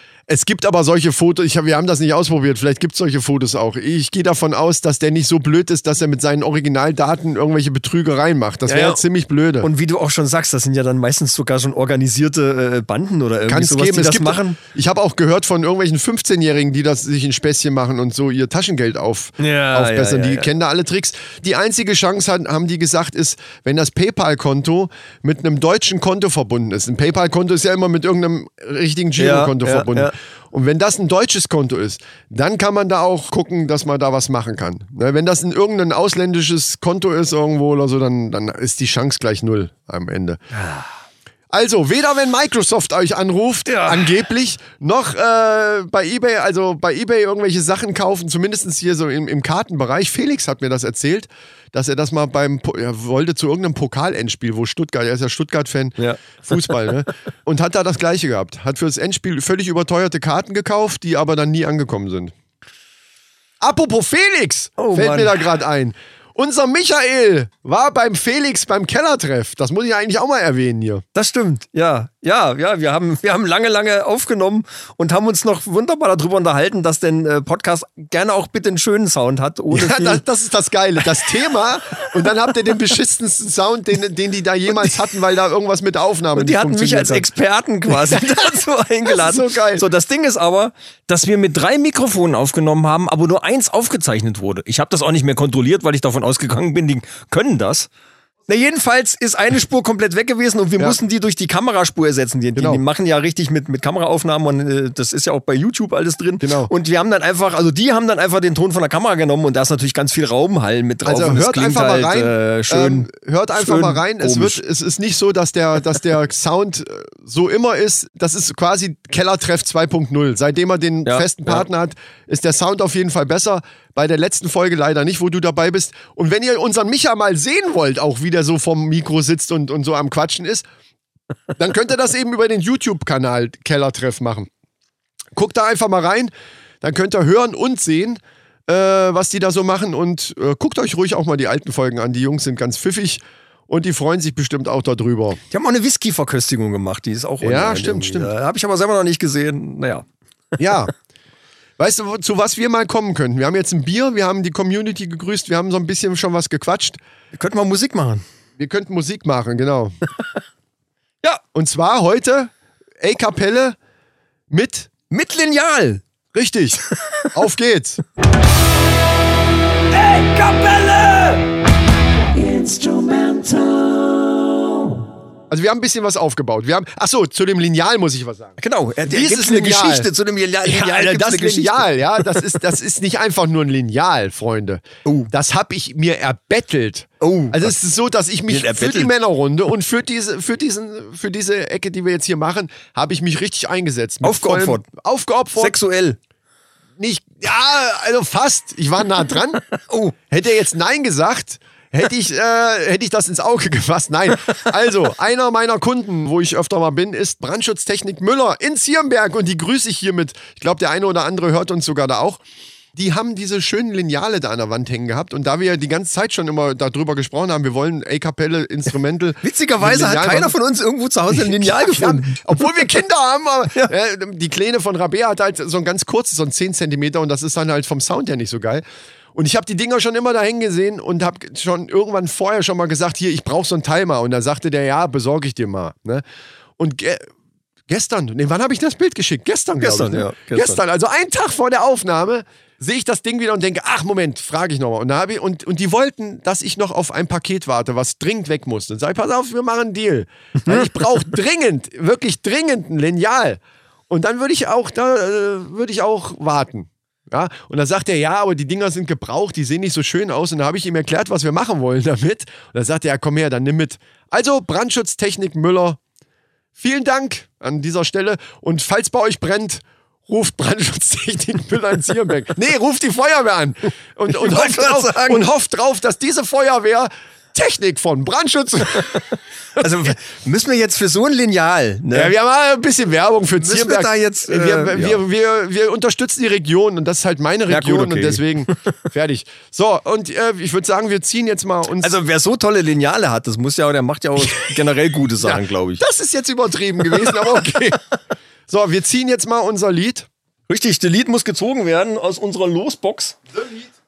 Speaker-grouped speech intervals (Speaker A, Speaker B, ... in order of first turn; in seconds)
Speaker A: 0.3-9.7, 13.5-40.4, 41.5-62.3, 63.6-71.0, 79.7-87.3, 87.9-89.8, 102.5-102.8, 106.4-106.7, 111.0-130.7, 131.6-134.5, 135.3-136.3, 136.8-145.4, 147.4-148.3, 150.6-150.9, 151.8-157.0, 158.6-159.9, 161.5-163.8, 164.5-164.9, 166.3-168.0, 175.5-180.1, 180.6-195.8, 197.0-199.6, 200.3-212.4, 212.9-220.5, 221.3-228.8, 229.3-236.2, 236.8-237.3, 237.9-266.0, 266.8-279.2, 279.8-280.1, 282.1-292.1, 295.4-298.0, 298.7-300.3, 303.5-303.9
Speaker B: 8.7-9.0, 9.6-14.6, 19.4-20.5, 29.2-30.1, 40.5-40.9, 43.6-44.1, 56.0-56.9, 64.8-65.3, 71.1-80.2, 86.3-97.9, 98.5-114.6, 121.0-121.6, 145.5-150.1, 157.3-158.2, 165.1-166.0, 169.9-171.5, 172.3-175.0, 178.6-182.4, 185.0-185.3, 187.2-187.7, 188.5-189.1, 194.2-194.8, 195.6-196.2, 199.8-200.1, 219.4-222.6, 239.8-240.8, 250.6-251.0, 274.3-275.4, 279.8-282.3, 283.6-285.2, 287.7-288.5, 292.0-296.0, 297.1-297.4, 300.7-303.4